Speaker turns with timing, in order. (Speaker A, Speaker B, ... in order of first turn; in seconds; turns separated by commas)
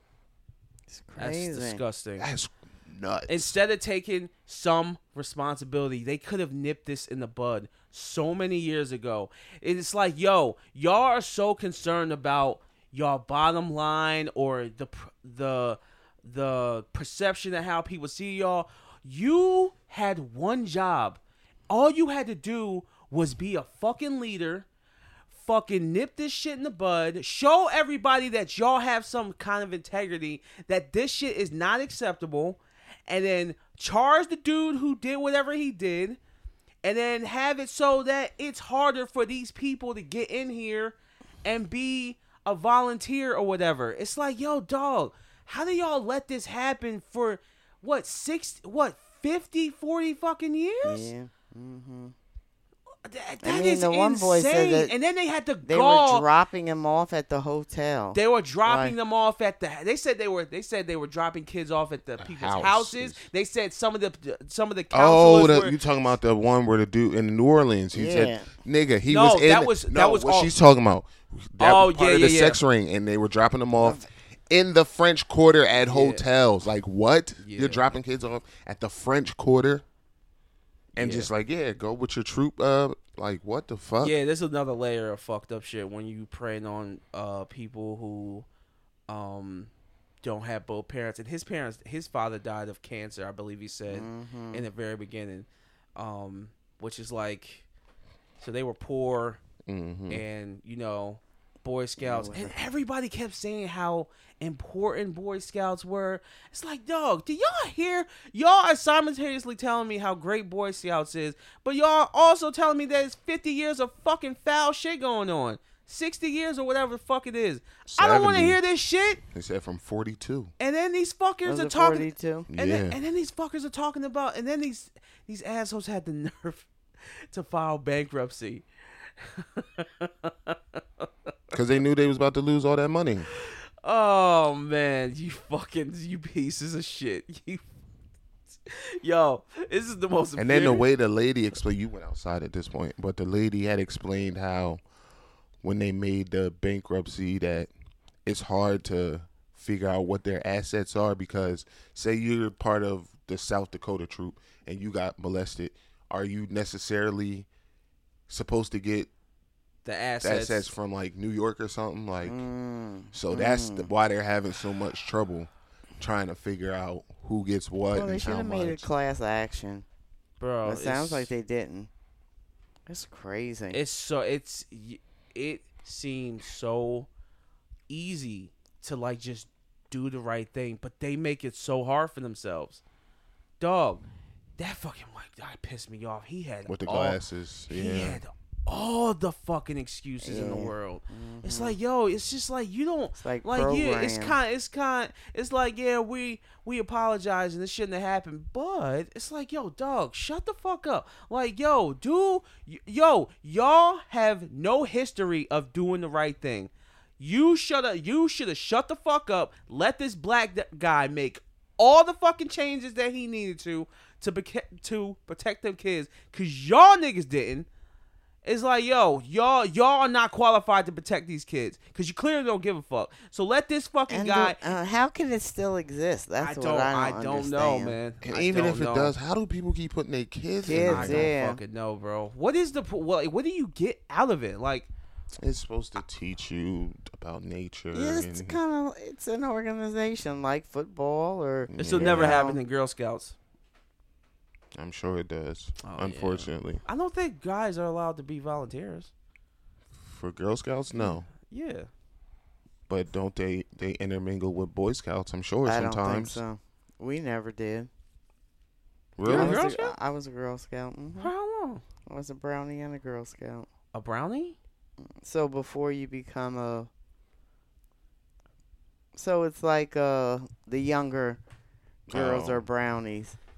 Speaker A: 0.9-1.8, Speaker B: 1.2-2.3, Speaker C: 2.2-3.5, Speaker B: 3.3-24.6, Speaker B: 25.3-36.2, Speaker B: 36.8-51.1, Speaker A: 50.8-52.1, Speaker B: 53.0-56.2, Speaker A: 53.4-54.9, Speaker A: 55.6-58.9, Speaker B: 58.1-65.8, Speaker C: 62.2-63.2, Speaker C: 64.9-79.8, Speaker A: 67.9-68.5, Speaker B: 69.1-70.5, Speaker B: 71.6-72.6, Speaker A: 73.8-74.1, Speaker B: 75.8-76.2, Speaker B: 77.4-77.8, Speaker B: 81.0-81.3, Speaker C: 81.0-84.2, Speaker B: 84.0-88.5, Speaker B: 89.1-89.7, Speaker B: 90.2-97.7, Speaker A: 93.9-94.7, Speaker B: 98.4-99.4, Speaker C: 99.7-100.2, Speaker B: 100.1-119.2, Speaker A: 102.0-102.5, Speaker C: 117.9-118.6, Speaker C: 119.3-120.5, Speaker B: 120.6-126.7, Speaker A: 121.5-122.5, Speaker C: 122.5-123.0, Speaker B: 127.3-128.7, Speaker B: 129.2-131.1, Speaker C: 131.5-133.3, Speaker B: 133.4-137.6, Speaker B: 138.5-140.9, Speaker C: 140.4-144.8, Speaker C: 145.6-147.7, Speaker C: 148.2-157.5, Speaker C: 158.3-159.1, Speaker B: 159.8-160.7, Speaker C: 160.2-162.4, Speaker A: 162.2-163.9, Speaker C: 163.1-168.8, Speaker A: 167.9-169.8, Speaker B: 170.4-171.3, Speaker A: 170.6-171.9, Speaker A: 172.9-173.8, Speaker B: 173.7-177.1, Speaker B: 177.9-182.8, Speaker B: 183.6-184.0, Speaker B: 184.6-217.7, Speaker C: 186.7-188.2, Speaker A: 190.2-191.8, Speaker A: 193.2-194.4, Speaker B: 218.4-224.6, Speaker A: 224.1-228.0, Speaker B: 226.4-229.1, Speaker C: 228.2-231.3, Speaker A: 230.6-231.6, Speaker B: 230.7-234.9, Speaker C: 235.4-238.6, Speaker A: 237.9-242.6, Speaker C: 241.7-242.5, Speaker B: 241.8-243.3, Speaker C: 244.7-246.8, Speaker B: 245.8-249.1, Speaker C: 250.0-251.3, Speaker B: 251.4-251.9, Speaker C: 252.9-256.4, Speaker A: 255.6-257.9, Speaker C: 259.1-259.6, Speaker B: 259.2-259.9, Speaker A: 259.2-261.3, Speaker B: 261.2-261.8, Speaker A: 262.1-263.7, Speaker B: 263.9-264.6, Speaker A: 265.0-266.9, Speaker A: 269.1-271.4, Speaker A: 272.1-273.4, Speaker C: 272.1-272.6